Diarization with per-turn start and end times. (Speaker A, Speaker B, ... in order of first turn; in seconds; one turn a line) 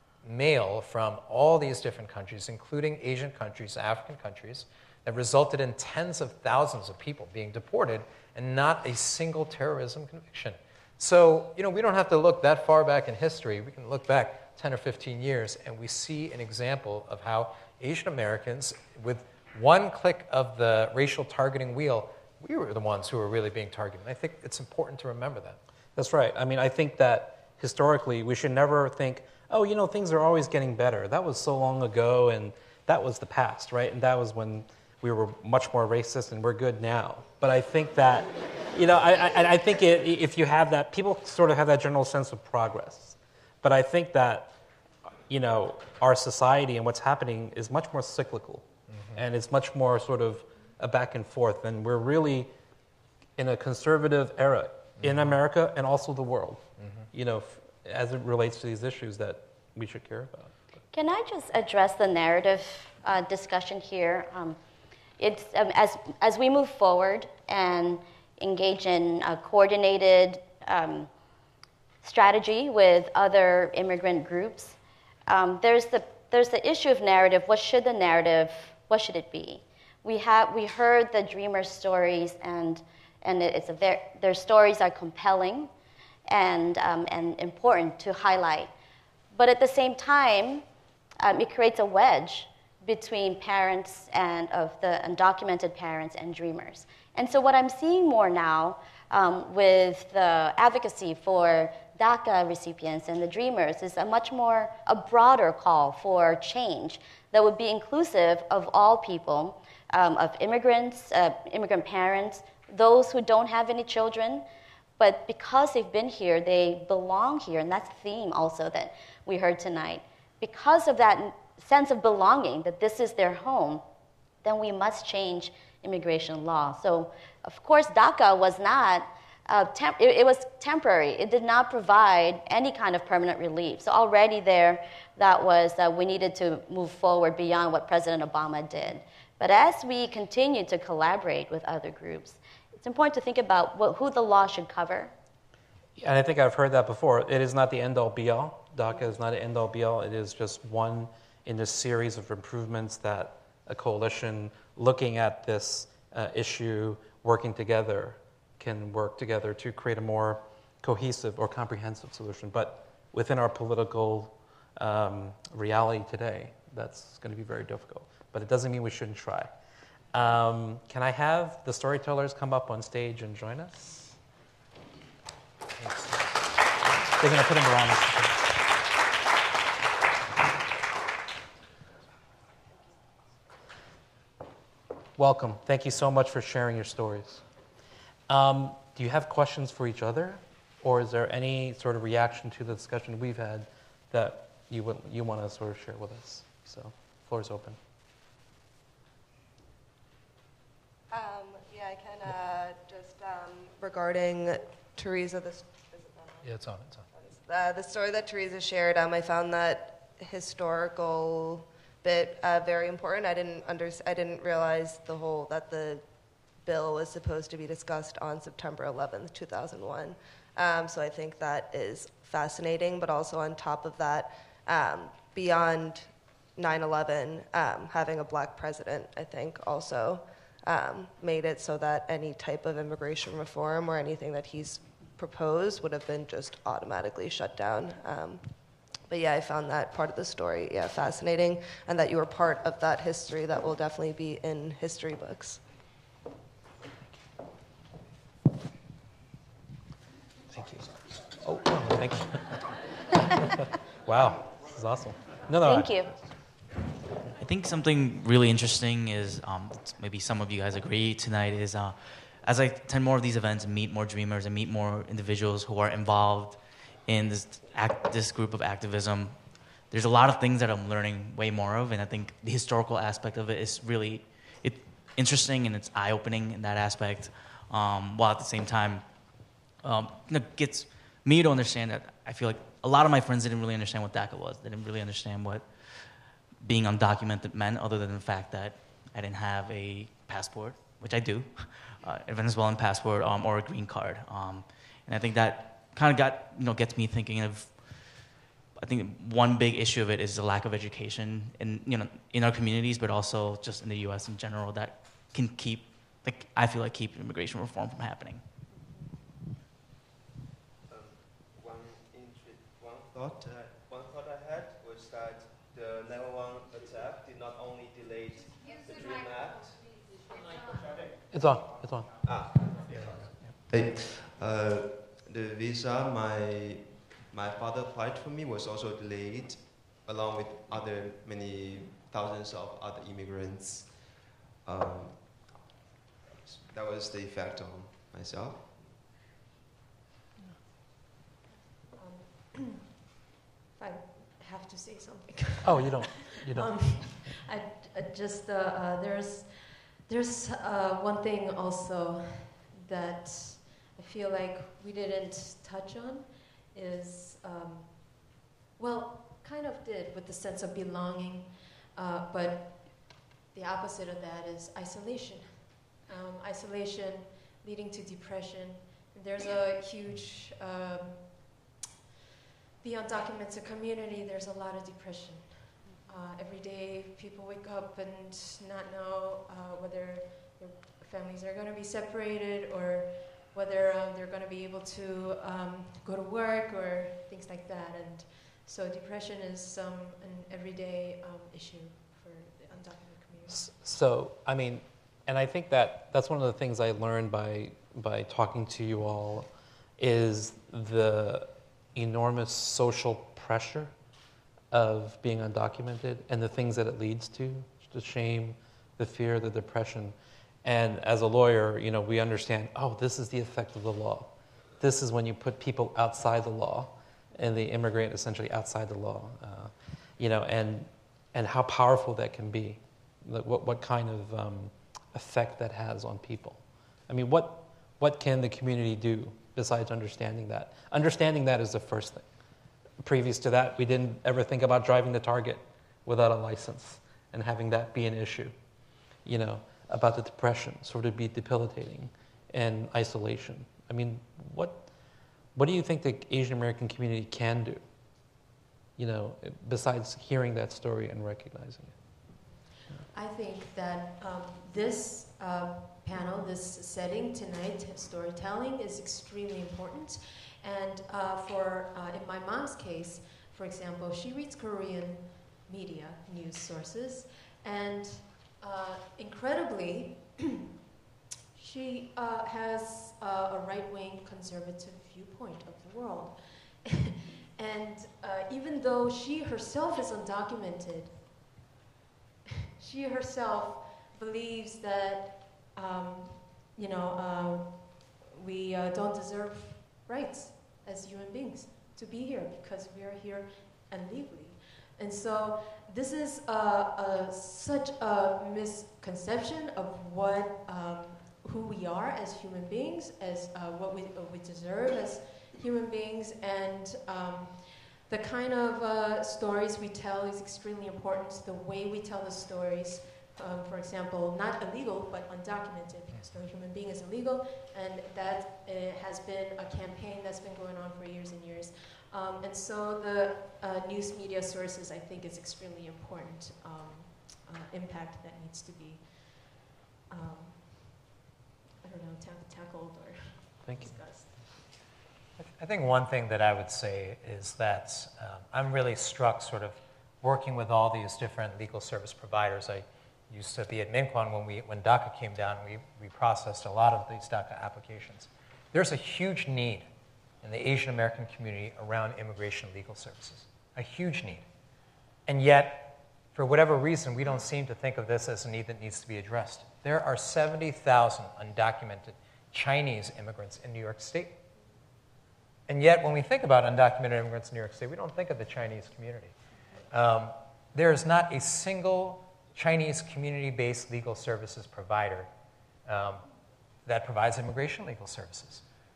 Speaker A: 0.2-25.6
Speaker B: 25.9-44.5
Speaker B: 45.3-52.5
Speaker A: 48.9-49.2
Speaker B: 53.4-60.5
Speaker A: 55.0-55.4
Speaker A: 56.8-57.1
Speaker C: 60.9-64.6
Speaker C: 65.2-71.1
Speaker C: 72.0-74.7
Speaker C: 75.3-85.7
Speaker C: 86.3-88.7
Speaker C: 89.3-90.6
Speaker C: 91.2-114.5
Speaker C: 115.0-123.8
Speaker C: 124.4-145.1
Speaker B: 146.0-169.5
Speaker B: 170.1-174.2
Speaker A: 175.8-176.2
Speaker B: 177.2-178.4
Speaker B: 185.2-187.4
Speaker B: 188.3-197.8
Speaker D: 201.1-206.5
Speaker A: 206.4-207.1
Speaker D: 207.1-216.0
Speaker D: 216.6-238.4
Speaker D: 239.1-245.6
Speaker B: 250.5-250.9
Speaker B: 251.4-252.6
Speaker B: 254.0-255.9
Speaker C: 255.6-256.1
Speaker E: 257.4-279.1
Speaker E: 279.8-308.4
Speaker F: 310.9-319.9
Speaker B: 321.3-322.2
Speaker F: 322.2-323.0
Speaker F: 323.7-335.5
Speaker F: 336.4-338.9
Speaker G: 341.9-343.0
Speaker G: 343.8-371.6
Speaker B: 345.6-347.3
Speaker G: 372.8-393.7
Speaker B: 393.5-403.9
Speaker B: 404.7-432.2
Speaker B: 433.0-438.5
Speaker B: 439.2-444.9
Speaker B: 445.5-447.8
Speaker B: 449.0-452.0
Speaker G: 453.1-470.6
Speaker G: 471.5-481.3
Speaker G: 482.8-531.2
Speaker G: 531.8-534.6
Speaker B: 533.6-533.9
Speaker A: 535.6-549.9
Speaker A: 550.4-554.4
Speaker A: 555.3-564.4
Speaker A: 565.7-569.3
Speaker A: 569.9-575.3
Speaker A: 575.9-576.2
Speaker A: 576.9-578.6